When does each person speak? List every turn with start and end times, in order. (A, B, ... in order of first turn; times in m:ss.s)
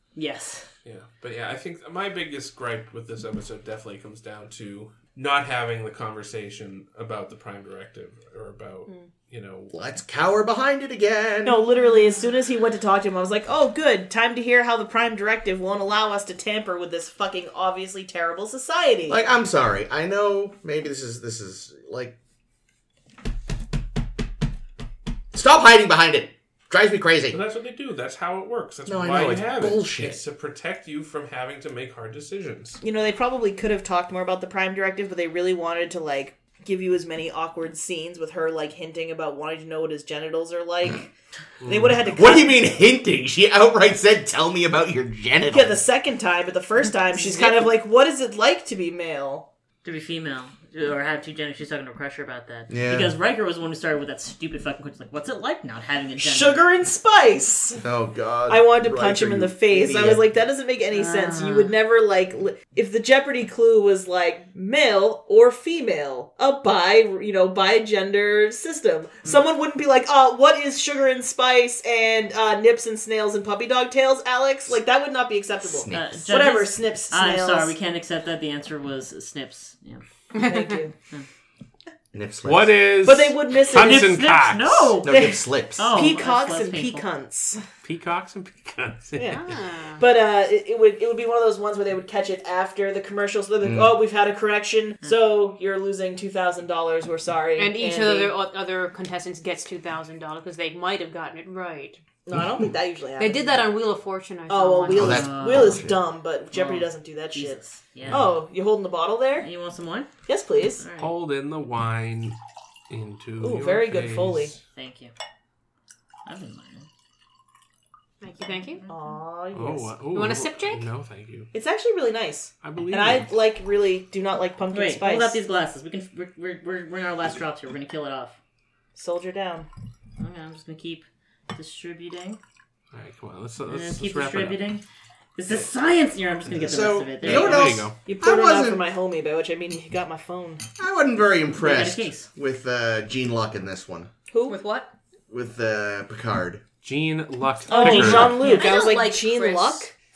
0:00.1-0:00.7 A
0:00.8-0:09.7 B
0:09.7-0:11.6 C
0:11.4-0:19.2 D
0:19.1-0:22.1 C
0:25.3-0:27.4 C
0:27.3-0:32.8 B
0:28.9-0:30.2 C
0:32.8-0:41.1 D
0:41.6-0:42.0 B
0:41.6-0:42.6 D
0:42.1-0:45.8 C
0:45.5-0:49.5 D
0:47.2-0:47.6 A
0:49.8-0:56.6 A
0:52.7-0:53.1 C
0:56.2-0:57.8 D
0:57.8-1:00.2 C
0:58.5-1:17.7 D
1:00.9-1:01.7 A
1:15.6-1:16.3 C
1:15.9-1:20.0 A
1:20.3-1:20.8 E
1:20.4-1:20.9 D
1:22.1-1:22.8 C
1:22.4-1:25.0 B
1:23.0-1:24.3 D
1:23.7-1:27.0 A
1:25.0-1:26.0 C
1:25.9-1:27.6 D
1:27.8-1:29.6 B
1:29.2-1:38.4 D
1:29.2-1:30.0 E
1:33.6-1:34.0 C
1:37.6-1:42.0 E
1:42.2-1:43.6 D
1:43.2-1:45.2 E
1:44.5-1:49.5 D
1:44.9-1:46.0 C
1:44.9-1:45.8 A
1:46.5-1:48.3 A
1:49.4-1:50.1 A
1:50.3-1:50.8 D
1:50.8-1:51.1 A
1:51.0-1:52.4 B
1:52.9-1:54.6 B
1:53.4-1:54.5 D
1:54.7-1:55.1 A
1:56.2-1:56.9 A
1:58.2-1:58.9 E
1:58.9-2:00.0 D
1:59.5-2:01.5 B
2:00.1-2:00.8 E
2:01.5-2:05.4 D
2:02.6-2:03.3 B
2:04.7-2:08.4 A
2:08.9-2:09.7 D
2:10.2-2:12.4 A
2:12.9-2:14.6 B
2:13.7-2:14.8 A
2:15.4-2:17.8 A
2:16.5-2:18.8 C
2:17.2-2:18.0 B
2:17.4-2:20.6 D
2:20.8-2:24.1 C
2:21.5-2:22.3 A
2:24.3-2:24.6 D
2:24.5-2:24.9 E
2:25.3-2:26.6 C
2:26.8-2:28.5 B
2:27.7-2:29.9 D
2:27.8-2:28.7 A
2:27.9-2:29.9 E